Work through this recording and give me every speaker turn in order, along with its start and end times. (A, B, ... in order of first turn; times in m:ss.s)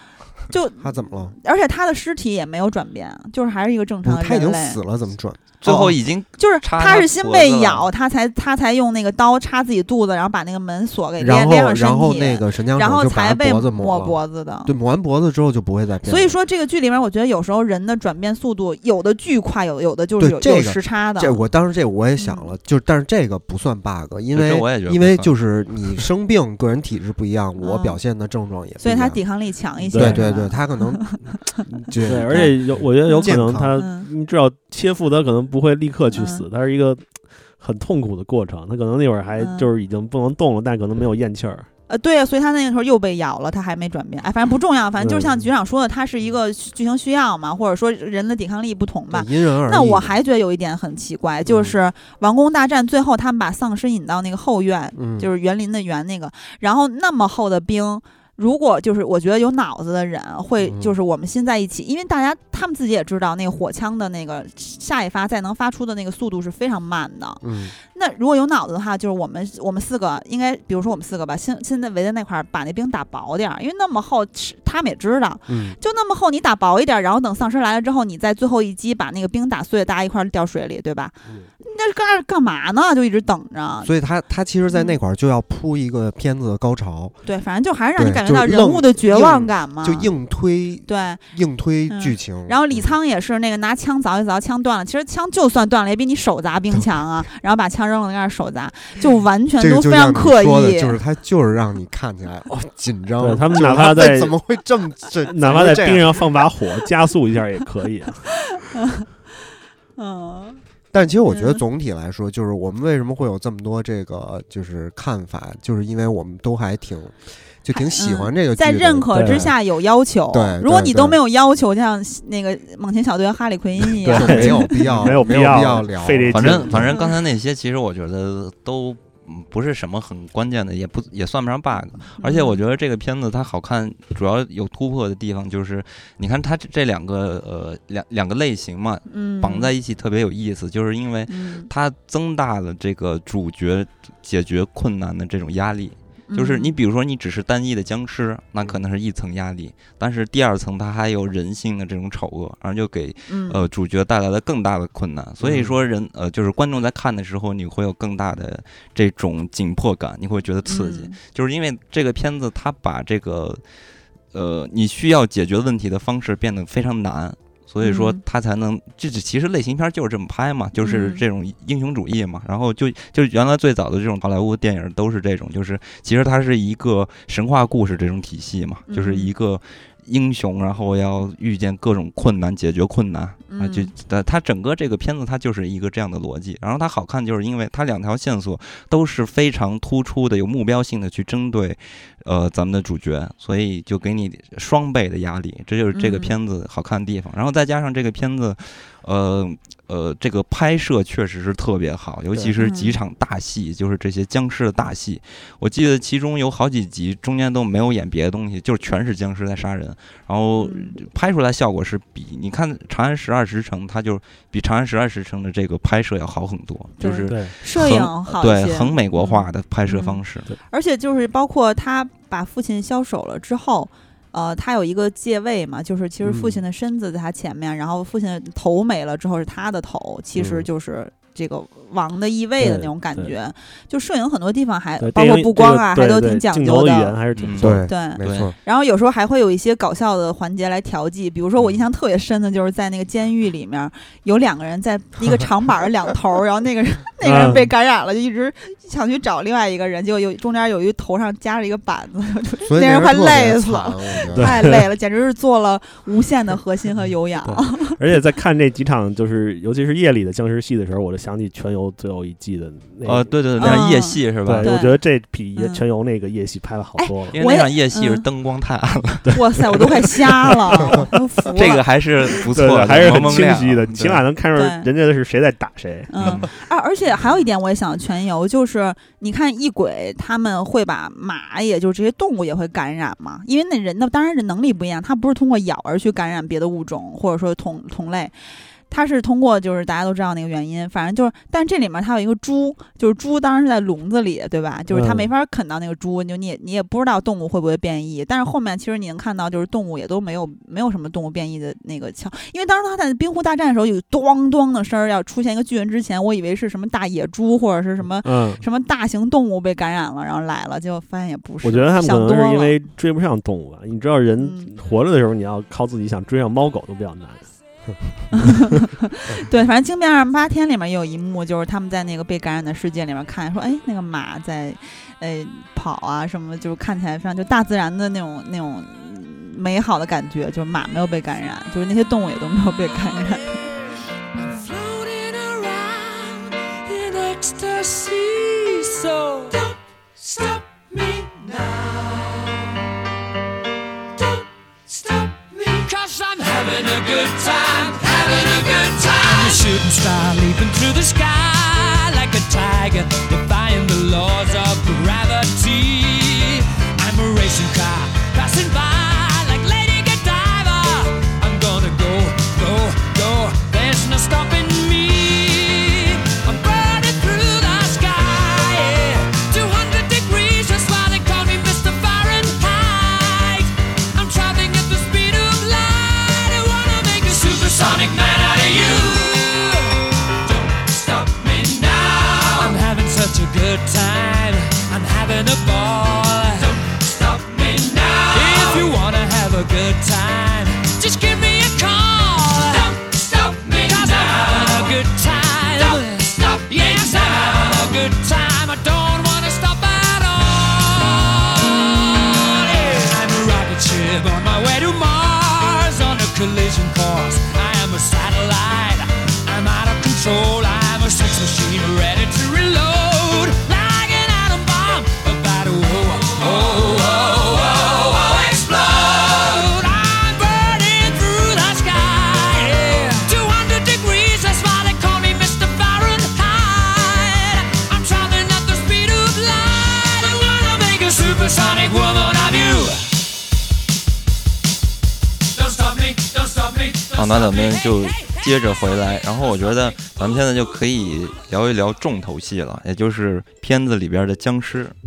0:00.5-0:04.8 A
0:00.8-0:01.4 B
0:04.0-0:05.9 B
0:05.6-0:07.9 C
0:06.4-0:14.7 A
0:11.2-0:16.3 B
0:16.0-0:21.4 A
0:20.2-0:29.2 B
0:22.2-0:22.5 A
0:24.3-0:25.3 C
0:27.6-0:28.0 A
0:28.8-0:31.2 A
0:29.9-0:33.8 B
0:29.9-0:30.2 D
0:32.0-0:37.1 D
0:33.0-0:34.1 A
0:36.1-0:36.4 A
0:37.6-0:41.7 D
0:39.4-0:39.7 A
0:41.9-1:23.9 A
0:45.0-0:45.3 D
0:49.1-0:50.1 B
0:51.4-0:51.8 B
0:55.0-0:55.3 B
1:00.6-1:00.9 B
1:07.4-1:07.7 B
1:15.5-1:15.8 B
1:23.8-1:27.2 B
1:24.7-1:25.0 A
1:27.2-1:30.1 A
1:28.0-1:32.9 B
1:30.9-1:31.2 A
1:31.9-1:41.0 A
1:39.6-1:46.3 B
1:43.2-1:44.3 D
1:45.3-1:48.2 D
1:48.7-1:49.0 A
1:50.0-1:50.6 A
1:50.9-1:59.5 B
1:51.3-1:51.6 A
1:57.8-2:04.7 A
1:59.1-1:59.5 D
2:00.3-2:01.2 B
2:04.0-2:06.9 D
2:04.1-2:06.9 B
2:06.3-2:43.6 C
2:06.9-2:07.2 A
2:12.2-2:12.6 A
2:19.1-2:19.7 A
2:21.3-2:21.7 A
2:26.3-2:26.7 A
2:33.3-2:33.6 A
2:35.4-2:35.7 B
2:40.6-2:41.2 A
2:44.3-3:40.5 C
2:47.8-2:48.2 A
2:50.8-2:51.2 A
2:58.9-2:59.3 A
3:03.5-3:03.9 A
3:15.9-3:16.3 A
3:22.6-3:23.0 A
3:30.6-3:31.0 A
3:37.0-3:57.2 A
3:37.3-3:37.5 D
3:52.6-3:53.3 D
3:55.0-3:57.9 D
3:57.3-3:58.5 C
3:57.6-3:58.5 B
3:57.9-4:17.9 A
4:07.2-4:07.7 D
4:12.6-4:14.7 B
4:14.3-4:14.8 D
4:17.4-4:23.8 D
4:23.0-4:24.7 C
4:23.6-4:25.0 A
4:24.4-4:27.4 D
4:25.5-4:25.8 A
4:27.0-4:28.2 A
4:27.3-4:29.4 C
4:29.3-4:31.8 A
4:30.3-4:31.1 D
4:31.5-4:34.2 C
4:32.5-4:36.4 D
4:34.5-4:34.9 A
4:36.1-4:48.3 A
4:36.2-4:36.5 C
4:48.9-5:12.8 A
4:54.9-4:55.3 D
5:08.2-5:08.6 D
5:11.6-5:17.4 D
5:14.4-5:14.7 A
5:18.3-5:33.6 A
5:34.3-5:42.7 E
5:44.2-7:13.2 E
7:15.5-7:18.4 E
7:17.1-7:24.9 C